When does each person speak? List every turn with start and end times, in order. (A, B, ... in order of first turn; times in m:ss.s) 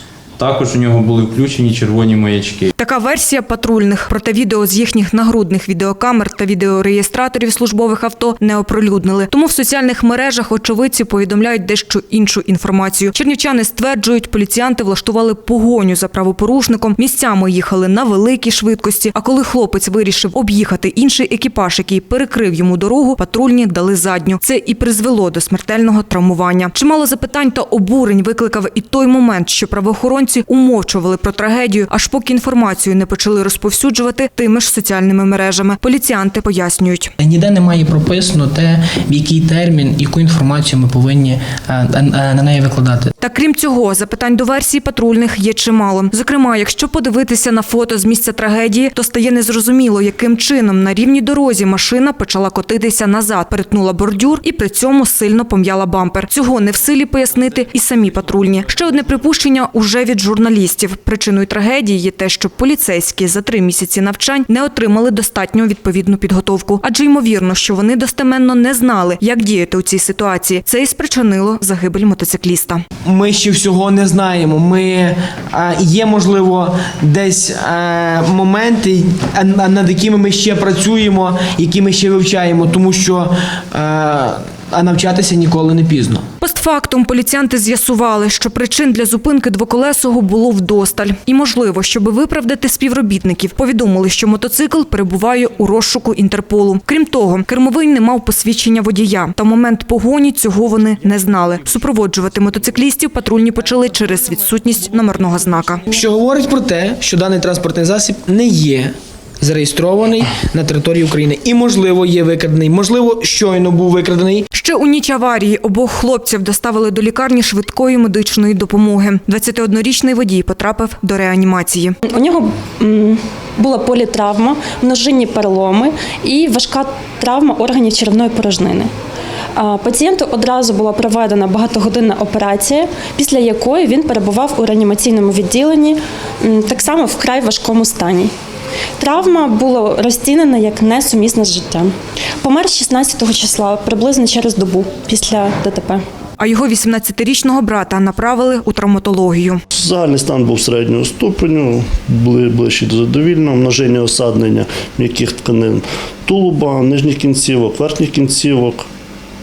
0:00.4-0:02.7 A
0:02.8-0:37.1 B
0:37.2-0:43.1 C
0:43.2-1:12.8 B
1:13.0-1:26.2 D
1:26.4-1:45.8 B
1:45.9-1:54.5 D
1:54.5-2:02.0 B
2:02.1-2:08.9 E
2:09.6-2:18.3 E
2:19.0-2:26.0 E
2:26.4-2:29.6 B
2:29.7-2:38.8 F